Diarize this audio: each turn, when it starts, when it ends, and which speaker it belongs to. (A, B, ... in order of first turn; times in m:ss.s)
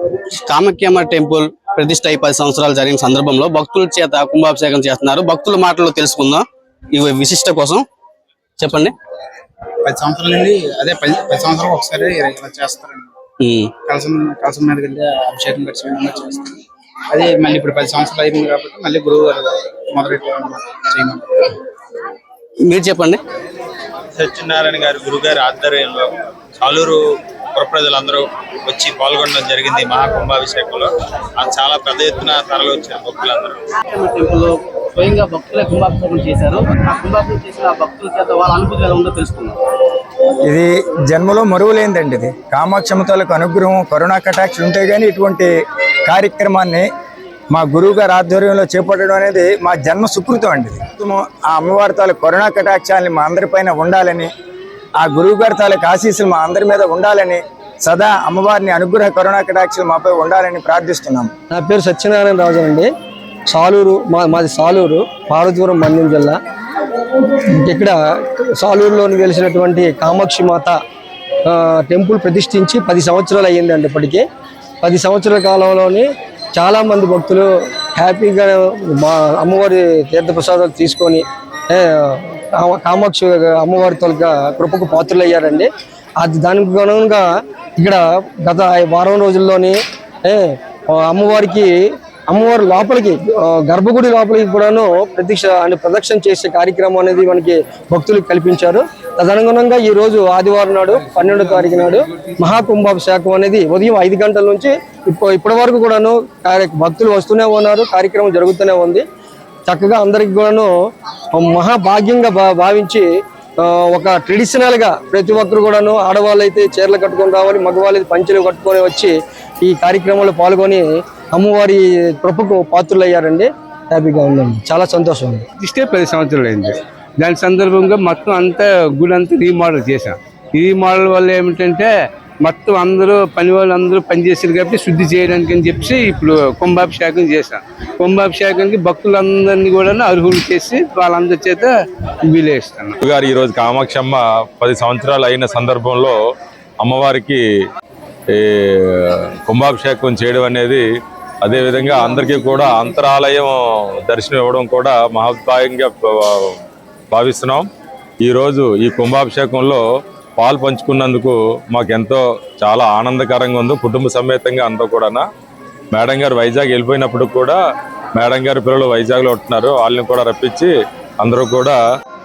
0:00.4-0:07.8 A
0:08.6-0:08.9 A
0:09.8-0:13.1 B
0:13.4-0:13.7 A
0:13.8-0:21.3 B
0:22.6-0:23.2 A
0:24.1-0:27.0 C
0:27.5-0:33.6 C
0:33.9-0:39.6 A
0:40.4-0:45.5 D
0:46.1-0:46.9 D
0:47.5-0:54.3 D
0:55.0-1:01.3 D
1:01.5-1:02.9 E
1:03.5-1:06.4 E
1:07.3-1:10.8 E
1:11.5-1:14.2 E
1:14.8-1:25.7 E
1:26.2-1:31.7 E
1:32.3-1:49.0 E
1:40.9-1:42.6 F
1:49.7-1:50.7 E
1:51.3-1:53.1 E
1:53.6-2:05.4 E
2:05.6-2:11.9 F
2:12.4-2:21.7 F
2:22.3-2:23.0 F
2:23.0-2:26.1 G
2:26.8-2:27.4 G
2:28.3-2:30.8 G
2:31.4-2:33.6 G
2:34.1-2:36.6 G
2:37.1-2:37.7 G
2:38.2-2:39.8 G
2:40.4-2:45.2 G
2:45.9-2:47.6 G
2:48.2-2:51.8 G